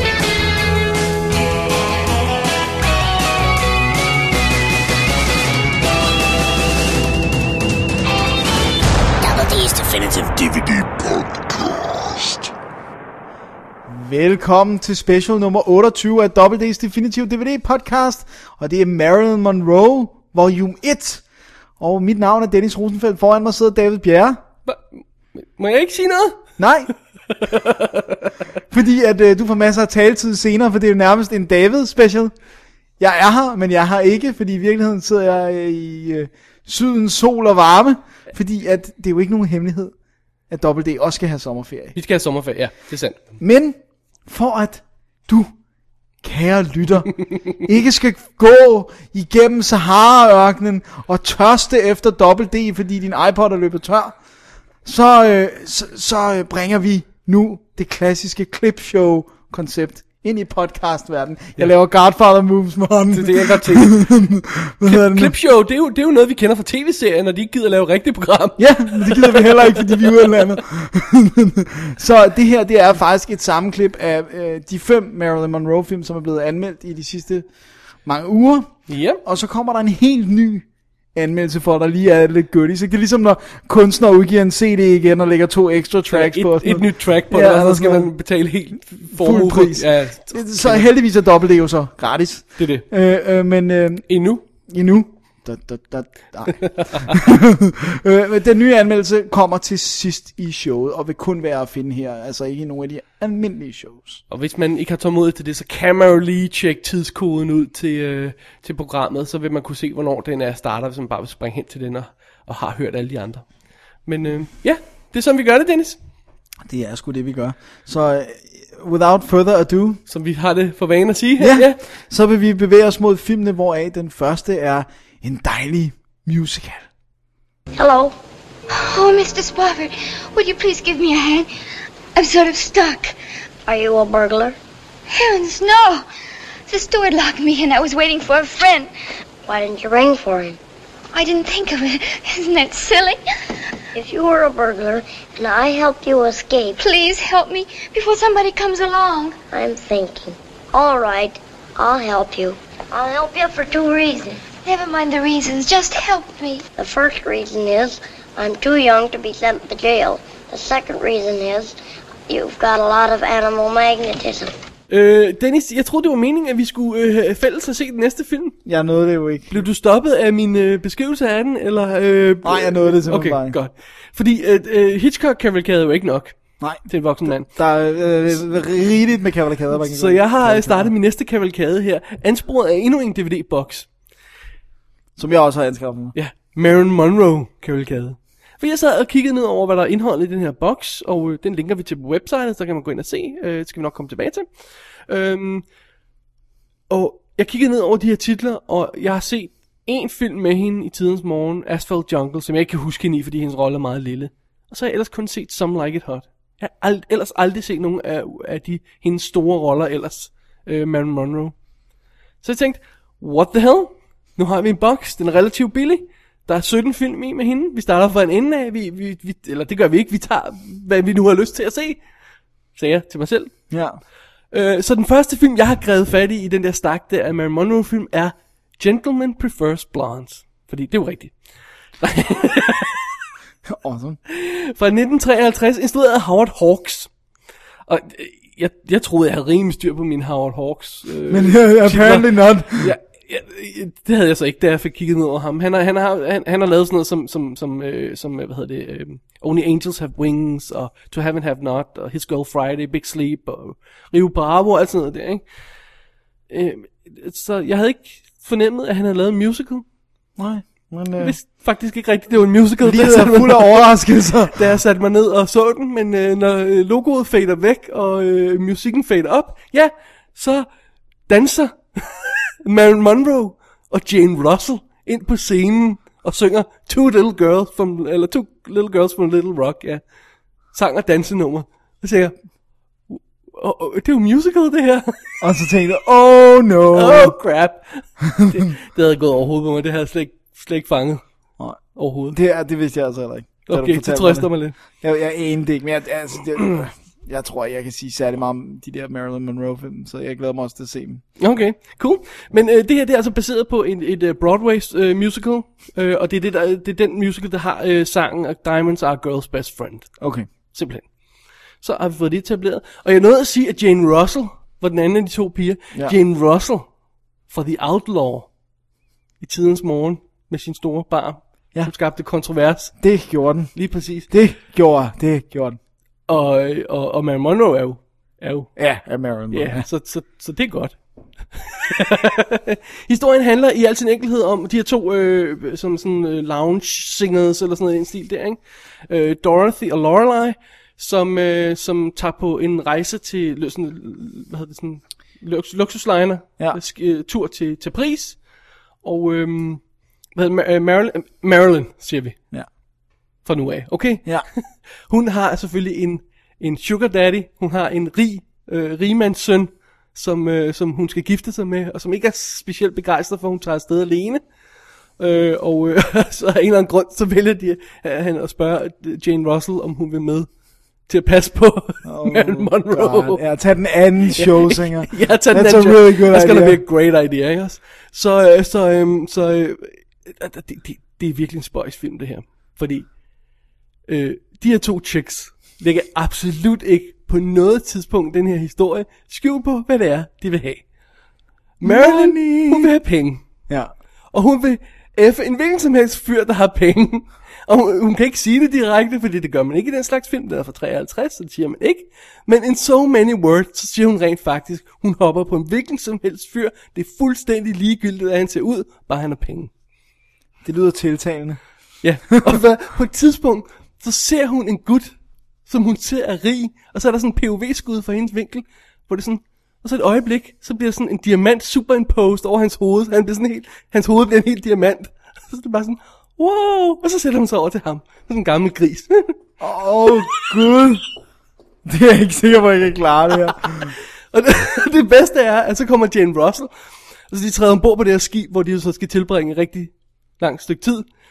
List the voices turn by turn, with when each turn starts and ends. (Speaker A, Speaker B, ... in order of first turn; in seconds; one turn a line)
Speaker A: 9.2-12.5
Speaker B: 13.9-21.2
Speaker B: 21.8-24.4
Speaker C: 25.3-26.4
Speaker B: 26.6-26.9
Speaker C: 27.3-28.3
Speaker B: 28.7-32.3
Speaker B: 33.0-39.9
Speaker B: 40.5-42.0
Speaker C: 41.9-43.2
Speaker B: 43.4-45.5
Speaker B: 46.2-54.2
Speaker B: 54.8-65.3
Speaker C: 63.1-64.1
Speaker C: 64.8-70.6
Speaker B: 68.6-77.5
Speaker B: 78.0-88.1
Speaker C: 78.9-79.2
Speaker C: 86.1-90.9
Speaker B: 89.1-104.2
Speaker C: 92.6-92.8
Speaker C: 94.1-94.4
Speaker C: 96.6-97.2
Speaker C: 104.3-113.5
Speaker C: 114.0-116.0
Speaker B: 116.7-120.0
Speaker C: 120.1-121.8
Speaker B: 121.4-126.9
Speaker D: 127.8-128.2
Speaker E: 128.7-131.5
Speaker E: 132.1-133.2
Speaker D: 133.7-134.6
Speaker E: 135.1-136.0
Speaker E: 136.7-138.9
Speaker D: 139.4-140.6
Speaker E: 141.1-143.2
Speaker D: 143.9-146.8
Speaker E: 146.8-149.4
Speaker D: 149.5-154.4
Speaker E: 154.6-156.7
Speaker D: 156.8-161.8
Speaker D: 162.3-164.5
Speaker C: 164.9-168.6
Speaker B: 168.6-169.6
Speaker C: 169.5-177.5
Speaker B: 172.4-173.6
Speaker B: 176.6-180.9
Speaker C: 179.8-183.9
Speaker B: 185.2-186.1
Speaker C: 186.1-194.5
Speaker C: 195.1-195.7
Speaker C: 196.9-211.6
Speaker C: 212.4-222.0
Speaker C: 222.8-223.6
Speaker B: 223.7-224.0
Speaker C: 224.5-231.3
Speaker C: 232.0-233.0
Speaker B: 233.6-234.2
Speaker C: 234.3-237.1
Speaker C: 237.9-255.4
Speaker B: 241.3-242.9
Speaker C: 256.5-259.8
Speaker B: 260.4-261.4
Speaker C: 261.2-263.9
Speaker B: 262.8-264.6
Speaker C: 264.5-270.7
Speaker C: 271.3-280.0
Speaker C: 280.7-282.3
Speaker C: 283.1-285.4
Speaker B: 285.4-287.4
Speaker C: 286.9-291.2
Speaker B: 291.6-301.2
Speaker C: 291.9-292.4
Speaker C: 293.7-294.7
Speaker C: 301.4-311.1
Speaker B: 310.2-310.5
Speaker C: 311.8-316.9
Speaker C: 317.5-318.5
Speaker C: 319.4-323.0
Speaker B: 323.0-325.8
Speaker C: 323.7-324.3
Speaker C: 326.3-328.7
Speaker B: 328.8-329.9
Speaker C: 329.5-331.0
Speaker C: 331.6-348.4
Speaker C: 349.0-352.4
Speaker C: 353.4-364.4
Speaker C: 365.2-370.5
Speaker C: 371.1-373.4
Speaker B: 372.0-376.8
Speaker C: 374.3-383.1
Speaker C: 384.1-390.8
Speaker C: 391.8-393.4
Speaker B: 391.8-392.9
Speaker B: 393.7-393.9
Speaker C: 394.3-409.7
Speaker B: 410.6-411.6
Speaker C: 412.0-429.4
Speaker B: 412.3-412.6
Speaker B: 429.6-431.0
Speaker C: 430.1-430.4
Speaker B: 431.8-433.9
Speaker C: 434.3-436.7
Speaker C: 437.3-441.1